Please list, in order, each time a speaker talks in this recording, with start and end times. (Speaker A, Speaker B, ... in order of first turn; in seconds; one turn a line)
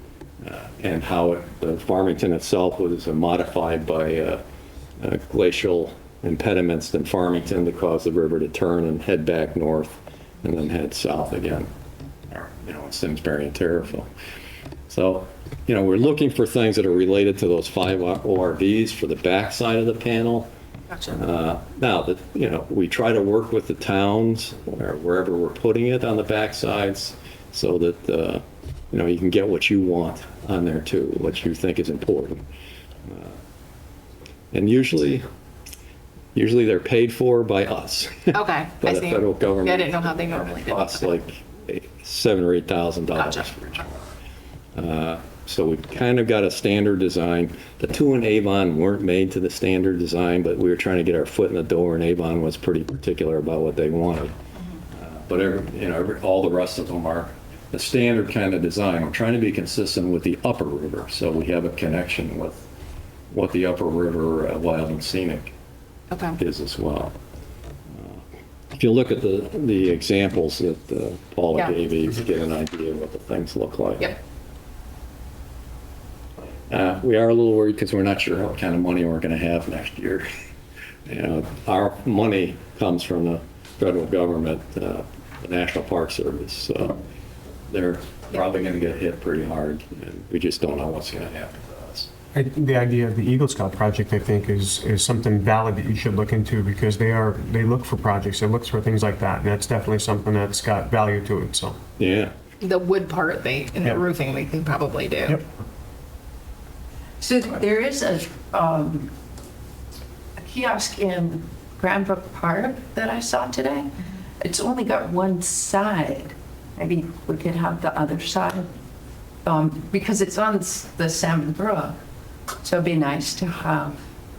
Speaker A: 0.4-4.4
Speaker A: 5.0-11.7
Speaker A: 12.3-14.1
Speaker A: 14.9-20.5
Speaker A: 21.1-32.4
Speaker A: 33.1-33.4
Speaker A: 34.5-35.2
Speaker A: 36.4-44.0
Speaker B: 38.3-41.1
Speaker B: 43.2-43.5
Speaker A: 44.8-54.4
Speaker A: 55.0-62.7
Speaker A: 63.3-65.5
Speaker B: 66.1-66.4
Speaker A: 66.4-67.2
Speaker A: 68.7-74.2
Speaker A: 76.7-80.3
Speaker A: 81.1-87.0
Speaker A: 87.7-92.1
Speaker C: 92.3-101.8
Speaker A: 102.0-102.3
Speaker B: 102.6-105.4
Speaker D: 107.2-109.1
Speaker D: 110.4-118.7
Speaker D: 119.5-122.0
Speaker D: 122.6-124.0